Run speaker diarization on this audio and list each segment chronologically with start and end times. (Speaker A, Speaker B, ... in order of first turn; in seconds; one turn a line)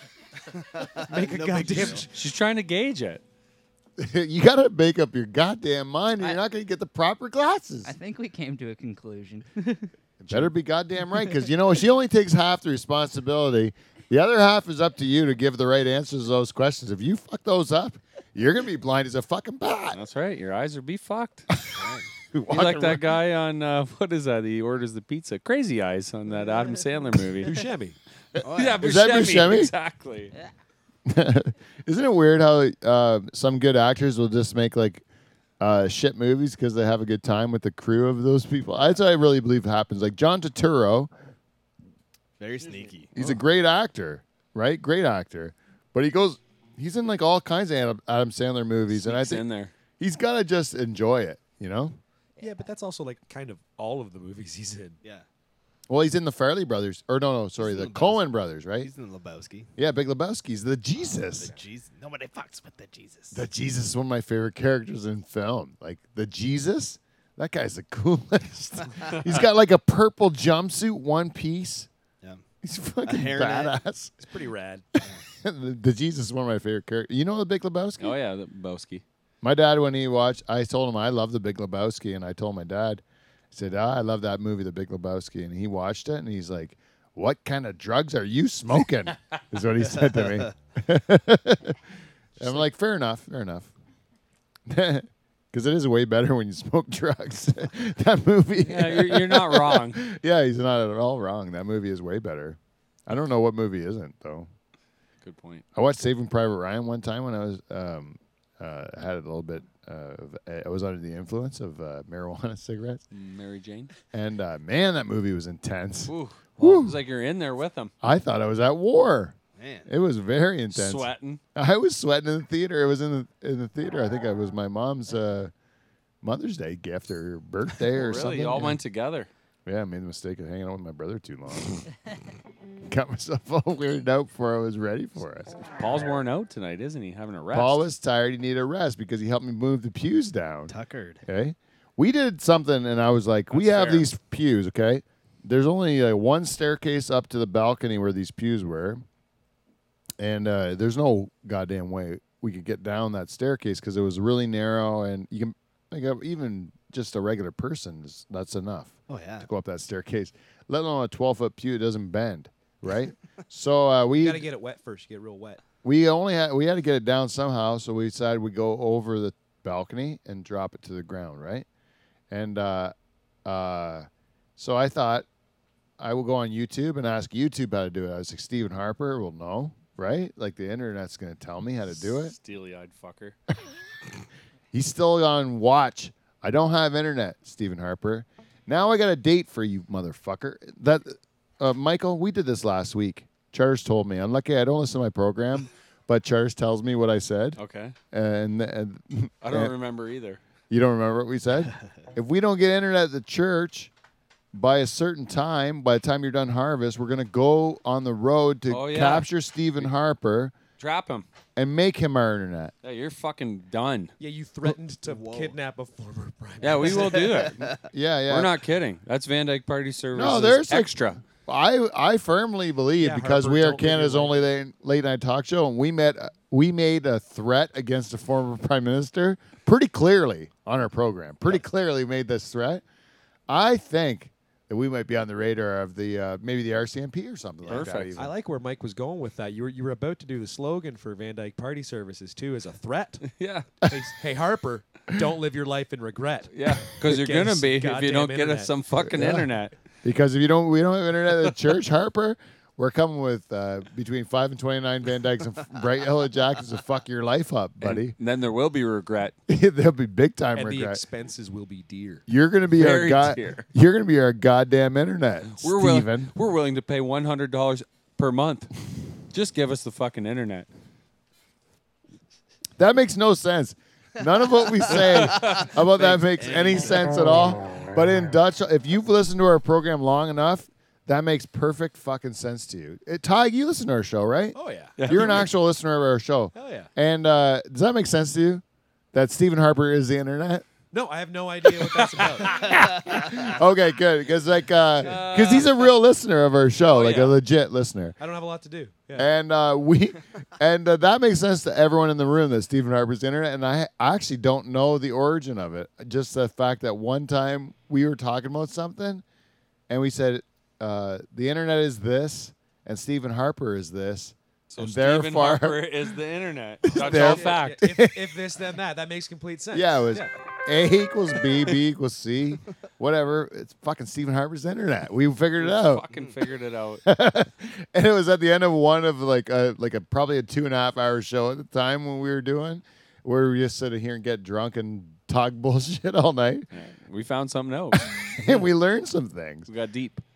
Speaker A: 0.5-2.1
Speaker B: 0.9-2.1
Speaker C: 2.1-3.2
Speaker D: 4.0-7.9
Speaker E: 7.8-9.9
Speaker D: 10.2-20.0
Speaker C: 19.9-21.5
Speaker D: 21.7-23.1
Speaker A: 21.7-22.1
Speaker C: 22.5-27.5
Speaker B: 27.4-28.0
Speaker A: 28.4-28.9
Speaker C: 28.5-30.3
Speaker D: 28.8-29.7
Speaker D: 31.1-35.0
Speaker D: 35.6-41.1
Speaker A: 42.4-43.4
Speaker D: 43.1-49.4
Speaker C: 48.9-49.7
Speaker D: 50.0-52.0
Speaker B: 52.4-55.0
Speaker D: 55.9-58.9
Speaker A: 57.6-58.2
Speaker A: 58.8-59.7
Speaker D: 59.8-61.5
Speaker A: 61.2-63.4
Speaker D: 63.3-71.9
Speaker D: 72.6-74.1
Speaker A: 73.0-73.8
Speaker B: 74.2-74.8
Speaker D: 75.3-78.2
Speaker C: 78.0-79.0
Speaker D: 79.4-91.8
Speaker A: 89.9-90.5
Speaker D: 92.4-93.7
Speaker D: 94.7-104.5
Speaker C: 98.6-100.0
Speaker C: 105.2-105.6
Speaker D: 105.7-113.0
Speaker C: 113.1-113.9
Speaker D: 114.1-117.0
Speaker C: 116.1-117.9
Speaker D: 118.0-125.5
Speaker A: 119.6-119.9
Speaker C: 120.7-121.4
Speaker D: 126.2-128.8
Speaker C: 127.9-129.3
Speaker D: 129.7-131.9
Speaker D: 132.9-135.5
Speaker C: 135.7-137.8
Speaker D: 137.5-149.0
Speaker A: 140.7-141.2
Speaker C: 143.5-144.1
Speaker D: 150.2-164.4
Speaker A: 159.1-159.5
Speaker B: 164.1-165.6
Speaker D: 165.8-171.7
Speaker D: 172.3-172.9
Speaker D: 173.4-175.2
Speaker D: 176.0-182.3
Speaker C: 182.0-183.3
Speaker D: 184.7-197.6
Speaker C: 197.6-197.9
Speaker D: 198.1-199.7
Speaker C: 199.4-200.4
Speaker D: 200.7-203.9
Speaker D: 204.5-210.5
Speaker C: 208.7-209.3
Speaker C: 210.8-211.3
Speaker D: 211.6-212.7
Speaker C: 212.8-214.1
Speaker B: 214.2-217.3
Speaker A: 215.0-215.6
Speaker C: 216.6-217.7
Speaker A: 217.1-217.8
Speaker D: 217.9-218.5
Speaker C: 218.3-221.2
Speaker D: 220.1-232.8
Speaker B: 223.0-224.4
Speaker D: 233.5-238.3
Speaker C: 237.7-238.1
Speaker B: 237.7-243.3
Speaker C: 243.2-243.7
Speaker B: 243.8-248.7
Speaker C: 246.5-249.7
Speaker D: 249.0-249.5
Speaker D: 250.0-258.1
Speaker C: 257.8-259.4
Speaker D: 259.5-261.0
Speaker B: 260.5-262.2
Speaker D: 262.3-266.3
Speaker C: 262.7-263.6
Speaker C: 265.6-268.7
Speaker C: 269.3-270.7
Speaker D: 272.8-290.6
Speaker C: 274.9-276.4
Speaker A: 276.4-277.1
Speaker B: 284.5-285.5
Speaker C: 285.0-285.5
Speaker B: 286.5-286.9
Speaker B: 290.9-292.7
Speaker D: 292.5-298.1
Speaker C: 295.0-295.9
Speaker B: 296.9-297.3
Speaker B: 298.2-299.3
Speaker D: 299.1-309.2
Speaker D: 309.9-315.9
Speaker C: 314.7-317.8
Speaker D: 316.8-318.4
Speaker B: 316.9-320.3
Speaker D: 319.7-326.0
Speaker C: 325.6-327.0
Speaker D: 327.1-336.7
Speaker C: 336.7-338.6
Speaker D: 338.3-339.7
Speaker C: 339.7-340.2